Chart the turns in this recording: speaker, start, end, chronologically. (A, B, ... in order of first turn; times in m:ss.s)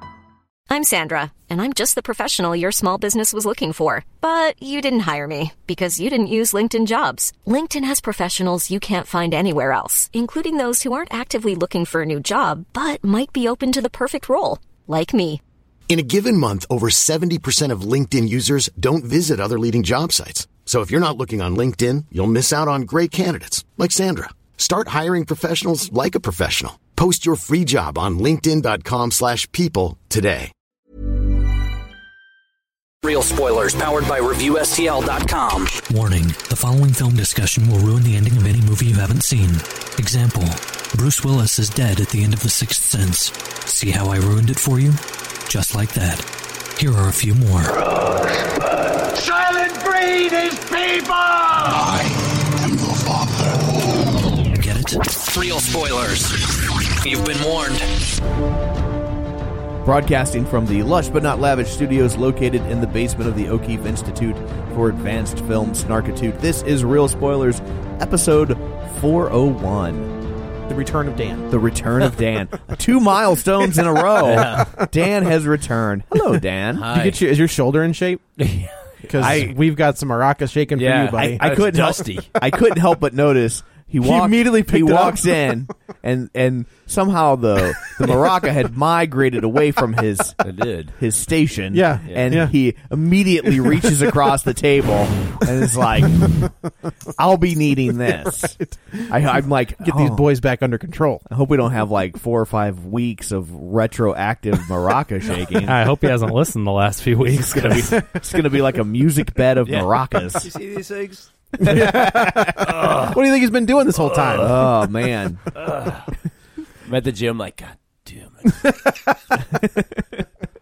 0:00.7-0:15.4 A
0:15.9-0:30.5 B
0:33.0-0:35.8 C
0:35.9-0:46.2 D
0:46.8-0:47.7 D
0:49.1-0:52.0 E
0:52.6-0:53.3 E
0:54.5-0:55.0 D
0:55.2-0:57.9 C
0:59.8-1:10.1 F
1:10.7-1:11.5 G
1:11.5-1:16.9 F
1:14.2-1:14.8 H
1:16.7-1:17.2 H
1:16.8-1:18.2 G
1:18.4-1:19.5 H
1:19.0-1:21.5 G
1:19.2-1:19.6 F
1:20.7-1:22.4 H
1:21.2-1:30.4 F
1:24.0-1:25.4 G
1:30.4-1:30.9 H
1:31.0-1:36.4 F
1:31.7-1:32.5 G
1:36.2-1:36.5 G
1:37.2-1:38.6 F
1:38.5-1:39.1 G
1:39.1-1:40.2 F
1:39.8-1:41.2 G
1:41.3-1:45.8 F
1:45.6-1:48.0 I
1:47.2-1:50.5 F
1:49.6-1:51.9 H
1:51.6-1:54.6 G
1:51.6-1:52.6 F
1:52.6-1:53.2 H
1:54.0-1:54.5 H
1:54.3-1:55.4 F
1:55.5-1:56.1 H
1:56.8-1:58.7 H
1:59.5-2:00.0 F